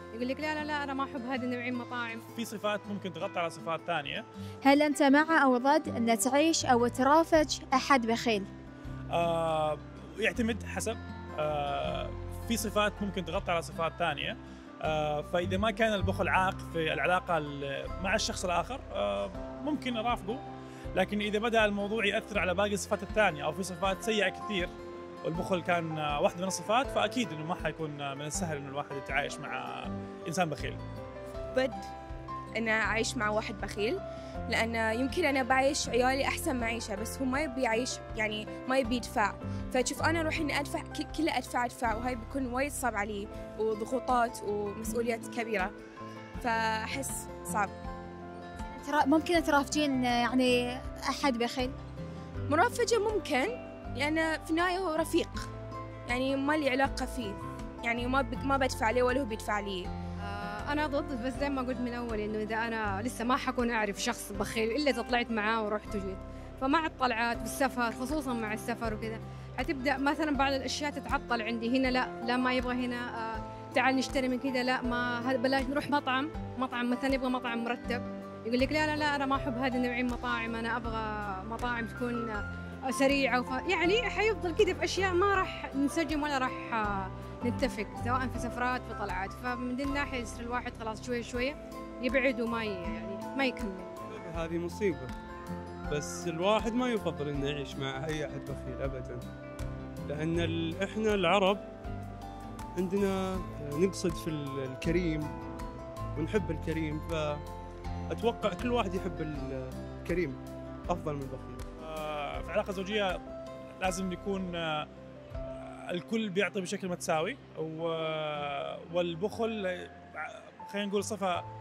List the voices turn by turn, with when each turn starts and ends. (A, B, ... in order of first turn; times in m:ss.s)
0:00.1-0:02.2 A
0:02.4-0:04.2 B
0:04.6-0:08.5 C
0:09.1-0:20.4 B
0:21.0-0:24.7 B
0:25.2-0:30.8 B
0:31.5-0:31.8 D
0:32.6-0:34.0 D
0:34.5-0:45.7 D
0:46.4-0:47.7 D
0:48.7-0:51.8 C
0:52.5-0:55.5 D
0:56.1-0:59.9 D
1:00.2-1:33.9 A
1:34.1-1:35.1 E
1:35.9-1:39.2 E
1:40.1-1:41.6 E
1:42.8-1:45.4 E
1:46.2-1:47.4 E
1:48.1-1:51.6 E
1:51.8-1:53.2 B
1:53.8-1:54.9 B
1:55.5-2:01.4 B